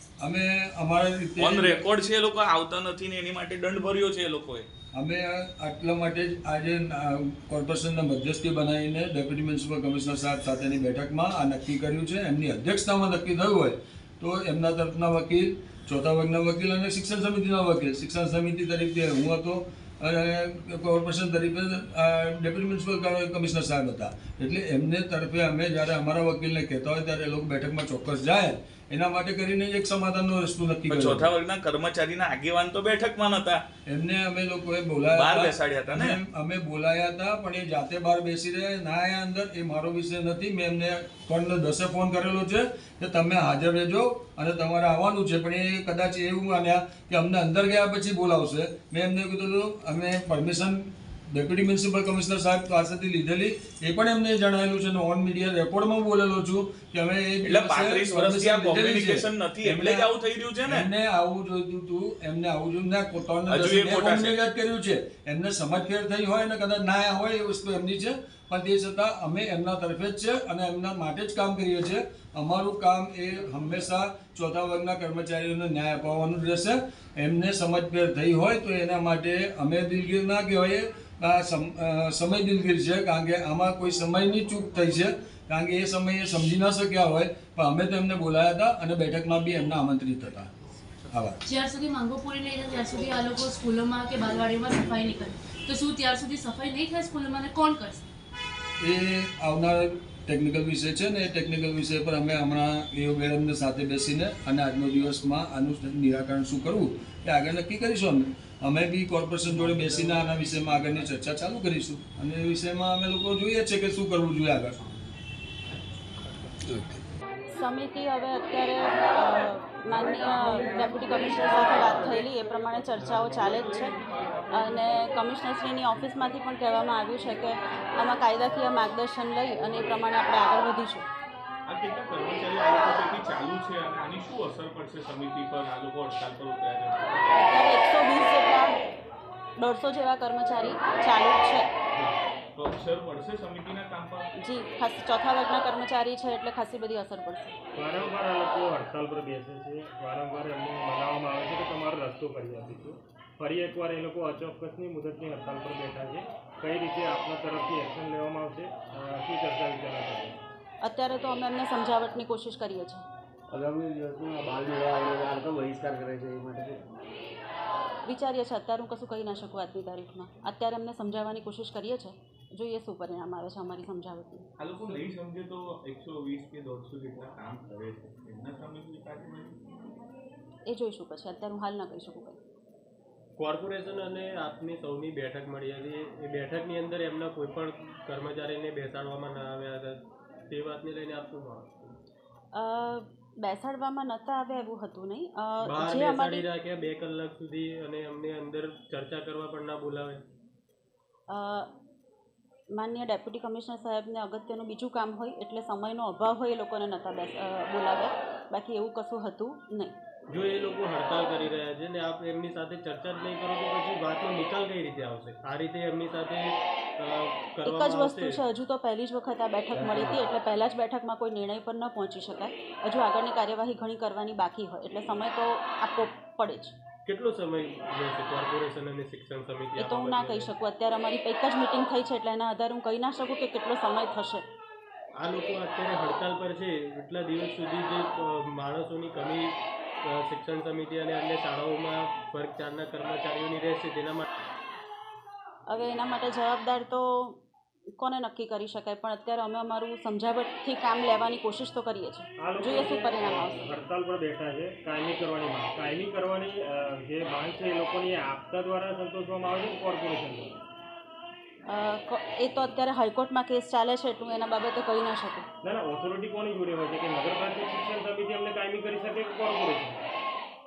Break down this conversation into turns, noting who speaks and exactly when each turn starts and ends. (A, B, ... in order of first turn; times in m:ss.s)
0:00.2-0:01.8 A
0:01.4-0:04.7 B
0:05.0-0:31.3 A
0:30.9-0:33.6 B
0:33.9-1:00.1 A
0:35.1-0:36.2 B
0:57.4-1:00.9 B
1:00.6-1:30.5 A
1:03.5-1:04.4 B
1:31.1-1:31.4 A
1:31.5-1:38.0 C
1:38.8-1:54.8 A
1:57.6-2:04.0 D
2:03.0-2:05.0 E
2:04.5-2:11.1 D
2:11.7-2:17.5 E
2:17.3-2:18.9 D
2:19.6-2:21.7 D
2:22.6-2:24.3 E
2:24.4-2:27.6 D
2:27.8-2:40.4 F
2:40.8-2:43.0 D
2:43.5-2:46.8 G
2:48.1-2:54.4 D
2:54.6-2:59.6 E
3:00.7-3:02.4 D
3:03.4-3:11.9 H
3:12.5-3:16.5 D
3:15.6-3:20.2 H
3:21.3-3:21.7 D
3:22.7-3:30.0 D
3:30.3-3:38.4 H
3:37.6-3:46.7 D
3:47.0-3:50.5 H
3:49.8-3:54.4 D
3:55.2-4:04.3 H
4:05.7-4:07.4 D
4:08.0-4:13.7 D
4:12.4-4:20.6 F
4:21.7-4:25.5 D
4:25.6-4:30.0 F